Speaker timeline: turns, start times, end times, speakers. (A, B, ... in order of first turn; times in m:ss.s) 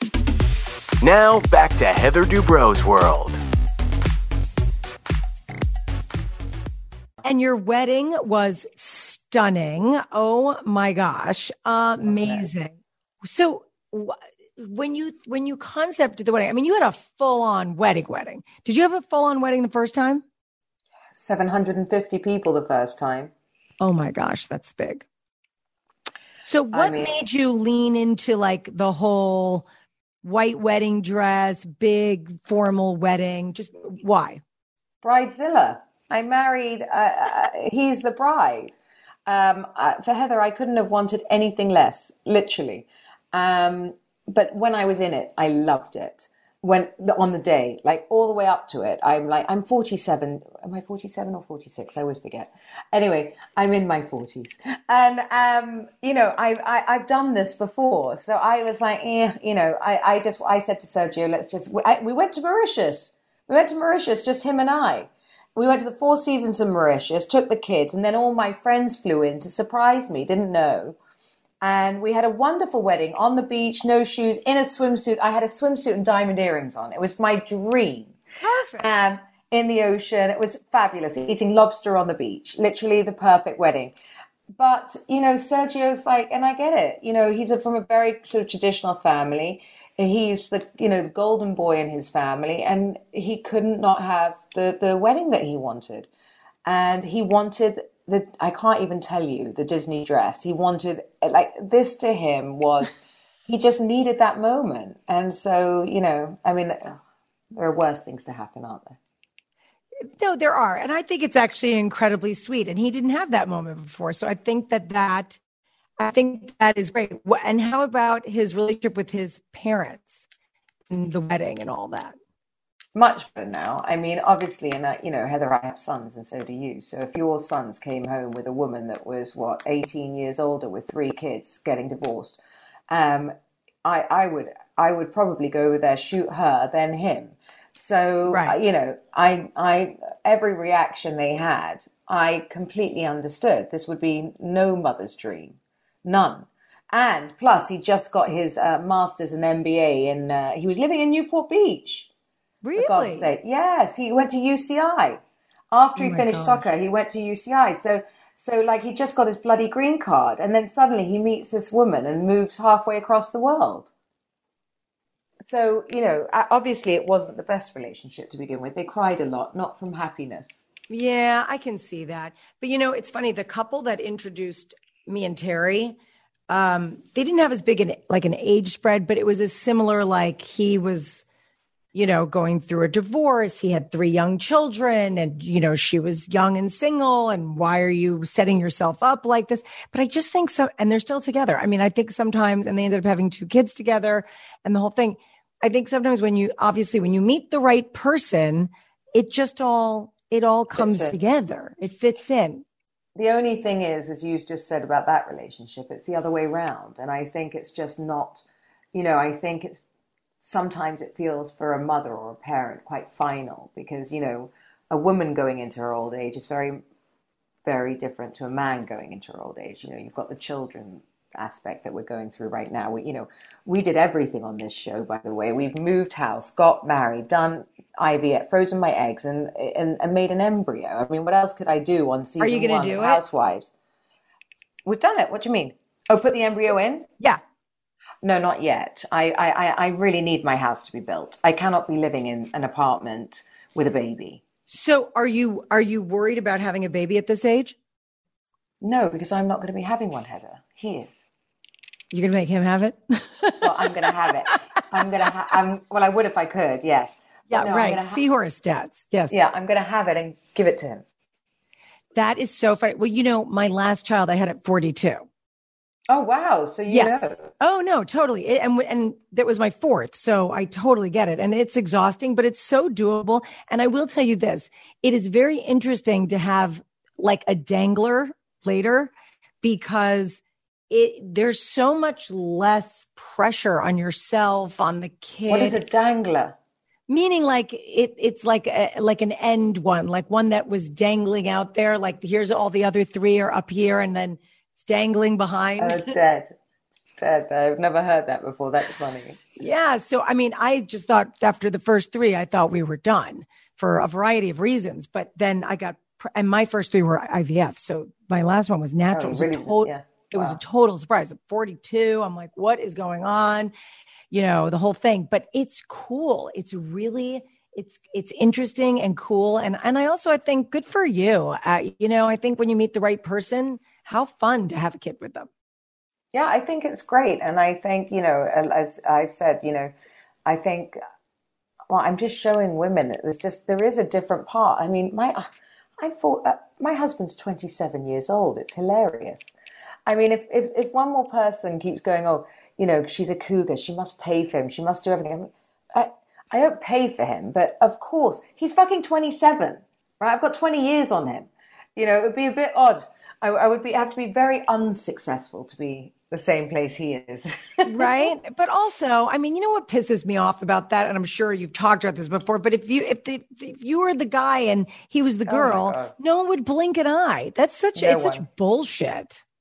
0:01.0-0:03.4 A
0:07.2-0:20.2 B
0:12.1-0:12.4 C
0:21.1-0:23.3 C
0:23.8-0:25.0 B
0:26.4-0:29.7 B
0:26.7-0:27.2 C
0:30.2-0:34.4 B
0:35.0-1:11.0 C
1:11.6-1:18.1 C
1:18.4-1:18.9 B
1:18.8-1:23.9 C
1:24.5-1:36.1 C
1:36.6-1:47.0 C
1:47.5-1:49.0 C
1:50.1-1:55.4 B
1:56.0-2:00.3 B
2:00.9-2:02.2 B
2:02.9-2:32.1 C
2:18.3-2:18.6 B
2:32.6-2:33.3 B
2:32.8-2:43.9 C
2:36.0-2:36.6 B
2:45.4-2:50.6 C
2:50.9-2:56.0 B
2:56.5-3:01.2 B
3:01.9-3:22.6 B
3:20.7-3:21.2 C
3:23.2-3:29.8 C
3:30.4-3:36.8 C
3:37.6-3:53.7 C
3:52.4-3:53.2 B
3:54.8-3:57.1 C
3:58.2-4:04.4 C
4:04.7-4:07.8 B
4:08.8-4:11.1 C
4:12.1-4:13.7 B
4:13.6-4:18.2 C
4:17.5-4:19.3 B
4:19.3-4:21.0 C
4:22.1-4:25.2 B
4:26.1-4:27.5 C
4:26.9-4:45.8 B
4:45.5-4:46.5 C
4:47.1-4:56.1 B
4:55.8-4:56.5 C
4:57.2-4:59.4 C
4:59.6-5:13.7 B
5:09.1-5:10.6 C
5:14.3-5:25.5 B
5:26.3-5:29.9 C
5:30.4-5:31.0 C
5:31.9-5:35.5 C
5:36.0-5:39.5 C
5:40.0-5:58.3 C
5:57.8-6:09.4 B
6:05.5-6:06.1 C
6:07.9-6:08.4 C